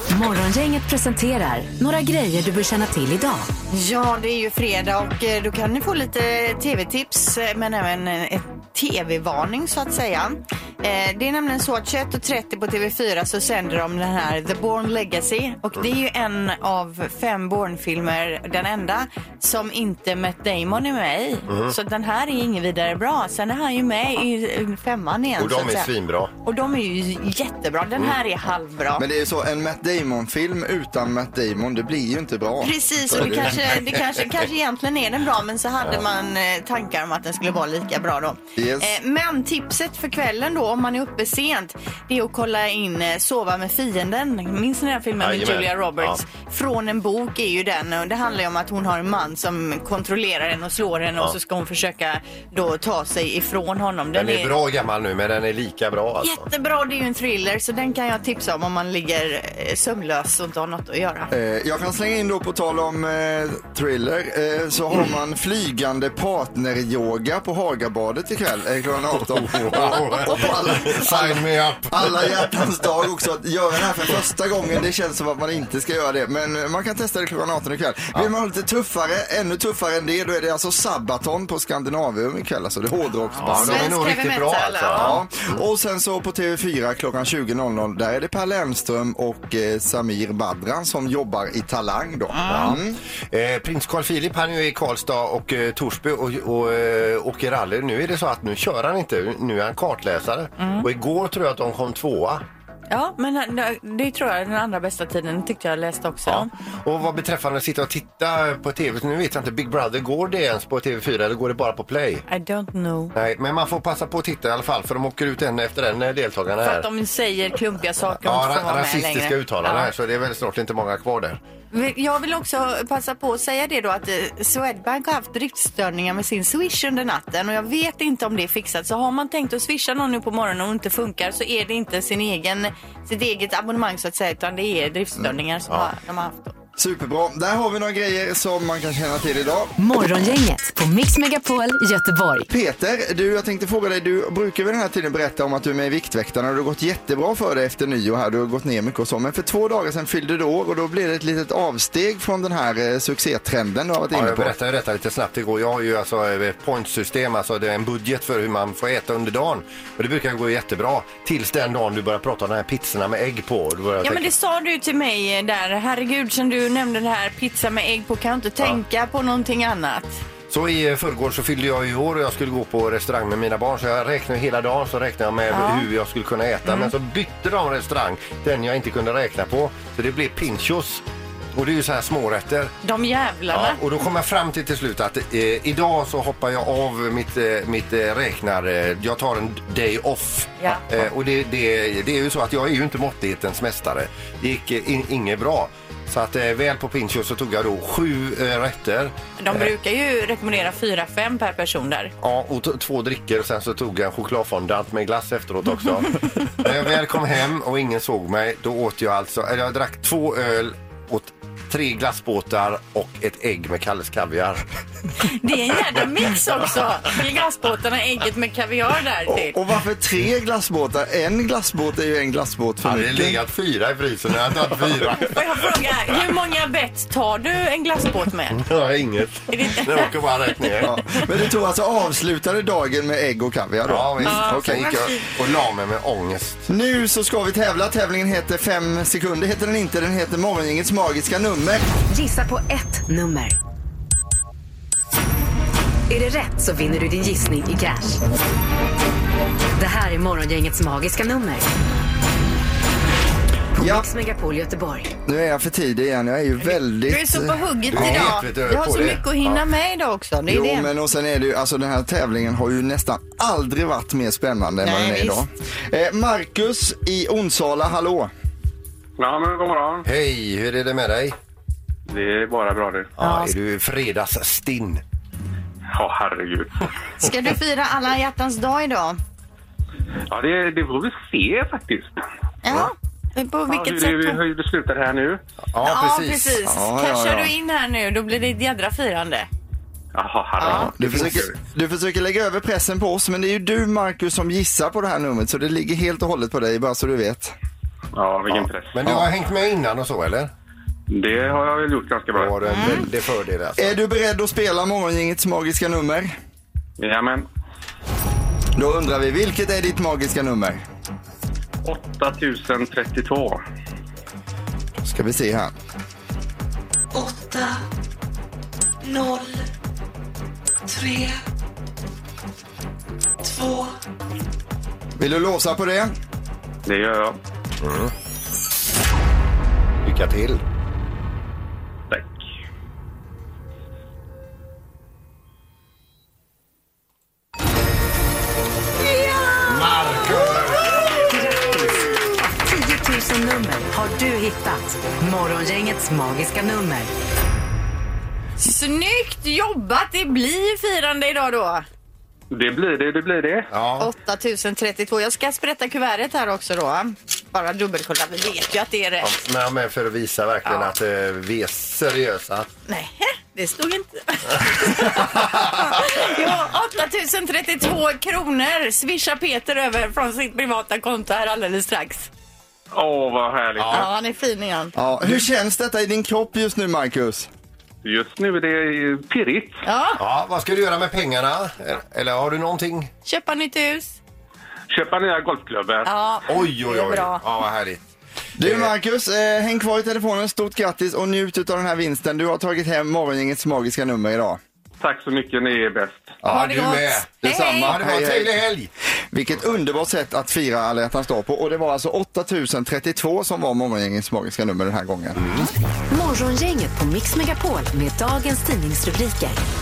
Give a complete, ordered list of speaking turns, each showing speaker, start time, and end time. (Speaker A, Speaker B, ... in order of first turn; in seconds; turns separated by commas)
Speaker A: 0.1-3.5, Speaker B: 3.7-25.9, Speaker C: 21.5-21.7, Speaker C: 25.4-26.3, Speaker B: 26.4-29.1, Speaker D: 29.0-33.5, Speaker B: 32.6-54.5, Speaker C: 33.1-33.8, Speaker D: 38.6-38.9, Speaker C: 45.2-46.2, Speaker C: 54.1-56.5, Speaker B: 56.2-61.3, Speaker D: 61.3-84.0, Speaker C: 69.2-72.6, Speaker B: 83.2-85.2, Speaker C: 83.4-85.6, Speaker D: 85.0-93.0, Speaker C: 92.5-92.8, Speaker C: 93.3-102.4, Speaker B: 100.6-100.9, Speaker B: 102.9-106.5, Speaker C: 106.3-112.2, Speaker B: 112.3-113.2, Speaker C: 113.1-116.9, Speaker B: 116.6-119.9, Speaker C: 118.2-121.4, Speaker B: 121.7-136.5, Speaker D: 136.8-139.7, Speaker A: 139.8-142.5, Speaker D: 142.5-154.6, Speaker C: 154.1-164.3, Speaker B: 164.0-170.2, Speaker C: 170.5-182.7, Speaker B: 175.5-175.9, Speaker B: 182.8-183.8, Speaker C: 183.5-199.7, Speaker B: 199.4-202.1, Speaker C: 202.2-214.7, Speaker B: 215.2-219.6, Speaker D: 219.3-223.4, Speaker C: 222.8-225.4, Speaker B: 225.2-228.7, Speaker C: 228.6-230.9, Speaker B: 229.5-231.2, Speaker D: 230.8-235.0, Speaker C: 233.9-236.6, Speaker B: 234.2-235.3, Speaker D: 236.7-241.8, Speaker A: 242.1-243.6, Speaker A: 246.1-248.2, Speaker A: 249.8-251.7, Speaker D: 253.8-254.1, Speaker A: 253.8-255.1, Speaker D: 255.3-258.4, Speaker B: 257.0-260.9, Speaker C: 257.9-259.6, Speaker D: 260.5-268.3, Speaker B: 264.8-265.4, Speaker E: 269.2-270.1, Speaker C: 270.1-271.4, Speaker E: 272.1-273.1, Speaker C: 273.2-275.0, Speaker B: 273.2-273.5, Speaker E: 275.9-276.9, Speaker B: 277.2-279.2, Speaker E: 280.3-282.2, Speaker B: 282.6-284.4, Speaker E: 283.7-285.4, Speaker C: 285.7-286.6, Speaker B: 285.8-289.5, Speaker D: 286.6-287.5, Speaker E: 290.1-291.5, Speaker B: 290.6-290.9, Speaker D: 290.6-297.5, Speaker E: 298.1-299.0, Speaker C: 298.9-300.5, Speaker E: 301.1-302.5, Speaker C: 302.3-304.0, Speaker B: 302.7-303.0, Speaker D: 303.8-306.4, Speaker E: 307.0-307.5, Speaker D: 308.8-310.8, Speaker E: 311.9-313.6, Speaker D: 315.0-315.7, Speaker F: 317.1-317.8, Speaker F: 319.0-319.7, Speaker F: 320.9-321.4, Speaker F: 323.4-324.0, Speaker D: 325.2-326.1, Speaker E: 326.9-327.4, Speaker C: 327.8-328.1, Speaker C: 330.0-330.6, Speaker E: 332.1-332.4, Speaker B: 339.2-341.2, Speaker C: 339.6-341.1, Speaker A: 341.3-347.1, Speaker B: 348.6-351.9, Speaker E: 352.5-353.7, Speaker C: 353.7-354.1, Speaker B: 354.0-359.3, Speaker C: 359.2-362.7, Speaker B: 360.6-360.9, Speaker B: 362.9-372.3, Speaker C: 365.1-365.8, Speaker E: 372.9-374.1, Speaker C: 373.8-374.1, Speaker B: 373.9-374.9, Speaker D: 375.0-377.5, Speaker E: 378.0-379.8, Speaker B: 379.8-380.2, Speaker C: 380.2-383.1, Speaker B: 383.2-384.2, Speaker E: 384.9-386.1, Speaker B: 386.1-387.4, Speaker C: 386.5-388.0, Speaker D: 388.6-394.6, Speaker C: 388.6-388.9, Speaker E: 395.0-396.4, Speaker C: 396.4-398.9, Speaker B: 396.5-398.0, Speaker D: 397.4-398.6, Speaker D: 399.3-405.4, Speaker C: 405.4-405.7, Speaker A: 406.1-409.6